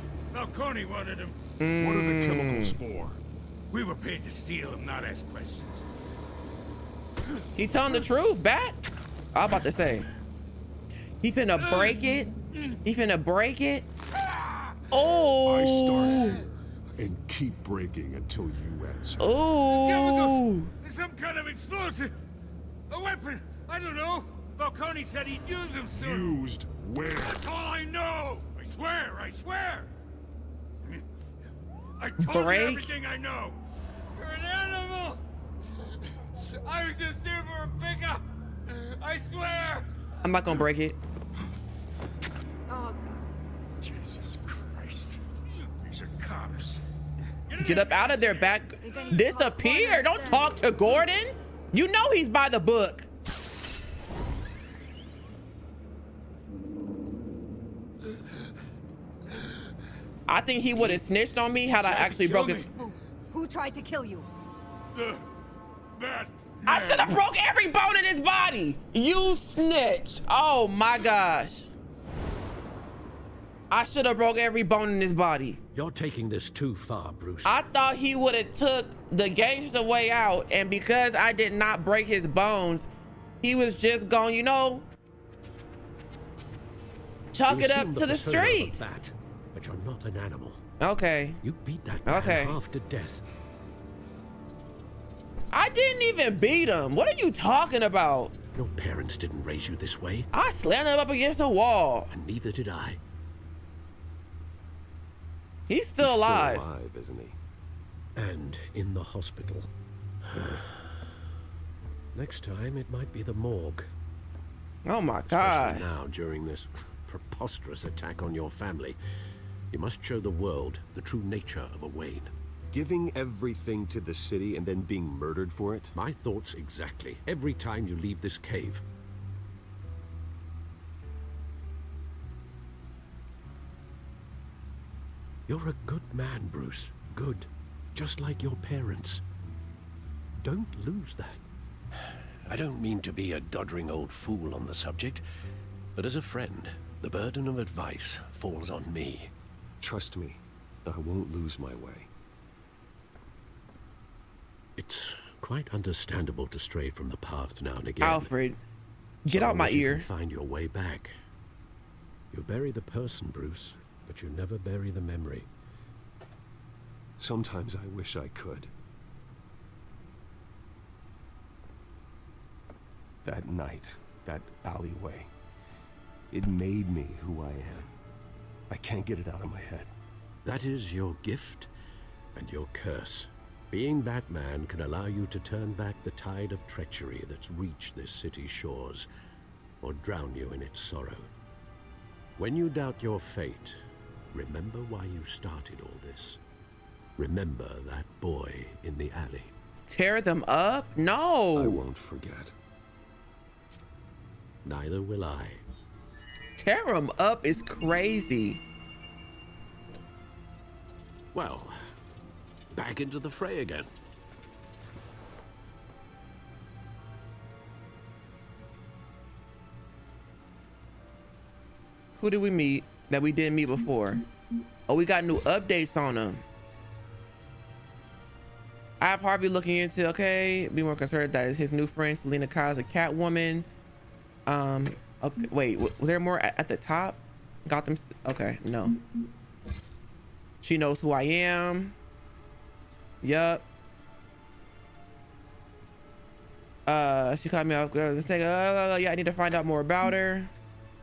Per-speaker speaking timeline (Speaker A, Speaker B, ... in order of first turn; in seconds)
Speaker A: 0.3-1.4, 3.7-5.8, 11.6-12.0, 19.8-22.1, 22.9-26.3, 27.3-29.9, 32.0-33.6, 34.1-35.2, 36.6-38.2, 38.7-39.9, 43.9-45.2, 46.0-46.7, 47.5-48.6, 61.8-62.7, 66.0-67.2
Speaker B: 1.6-2.8, 7.5-8.8, 9.3-10.1, 11.2-13.9, 14.9-16.4, 19.2-20.7, 32.2-33.0, 40.2-41.0, 47.6-53.1, 60.3-62.7, 66.7-71.7, 73.7-75.6, 77.4-82.9, 83.4-84.9, 87.3-88.9, 90.8-91.4, 92.0-92.6, 95.5-98.3, 100.3-102.1, 105.7-106.6, 114.9-115.9, 158.0-158.6, 159.2-160.1, 199.9-201.8, 206.6-208.6, 222.2-224.2, 224.9-226.4, 229.0-233.7, 234.5-239.0, 240.6-241.9, 243.2-243.7, 246.9-250.5
Speaker C: 1.8-3.2, 15.4-16.4, 17.0-19.3, 25.9-27.4
Speaker D: 42.7-43.2, 48.8-50.6, 62.7-64.3
Speaker E: 75.8-77.6, 87.5-90.6, 91.4-93.2, 98.5-100.3, 102.1-103.0, 108.2-109.7, 110.3-111.0, 112.1-113.9, 115.3-119.0, 119.7-122.3, 126.0-128.8, 135.5-139.2, 140.4-141.4, 142.4-145.2, 146.0-149.3, 154.8-158.3, 159.3-161.2, 162.3-165.5, 180.4-181.7, 182.3-189.1, 189.8-191.3, 192.4-193.8, 194.3-196.4, 197.2-199.5, 204.7-205.6, 211.3-211.8, 212.7-213.9
Speaker F: 106.0-107.4, 122.7-126.0, 149.8-152.1, 167.2-168.7, 173.2-175.3, 176.3-177.9, 178.7-179.9, 201.5-202.5